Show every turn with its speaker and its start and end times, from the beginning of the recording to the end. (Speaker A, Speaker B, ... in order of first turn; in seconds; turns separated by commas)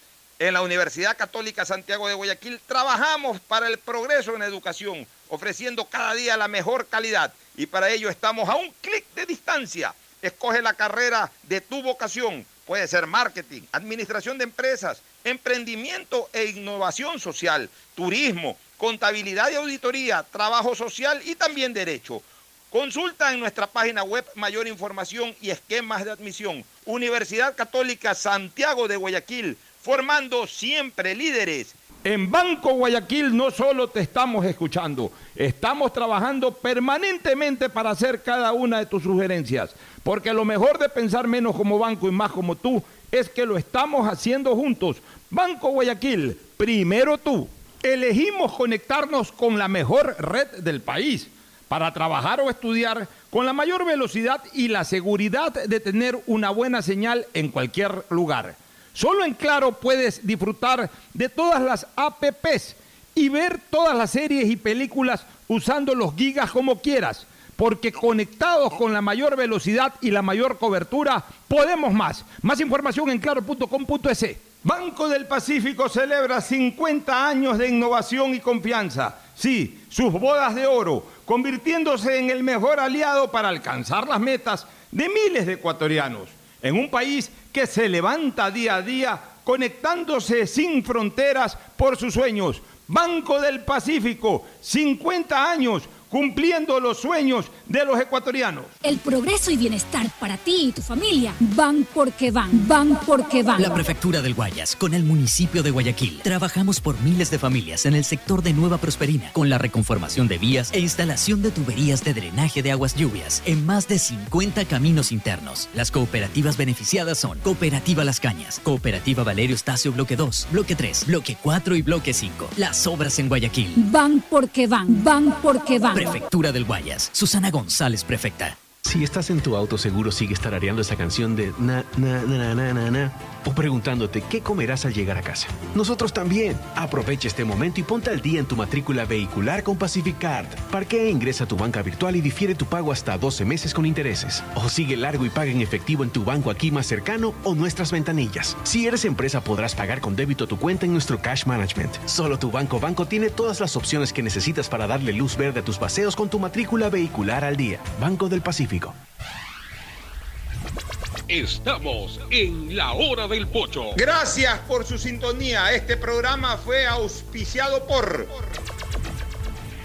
Speaker A: 0.4-98.7, Speaker B: 98.8-103.8, Speaker C: 103.6-123.8, Speaker B: 123.7-126.2, Speaker C: 125.9-128.6, Speaker D: 128.8-158.9, Speaker E: 161.3-163.9, Speaker A: 163.9-168.4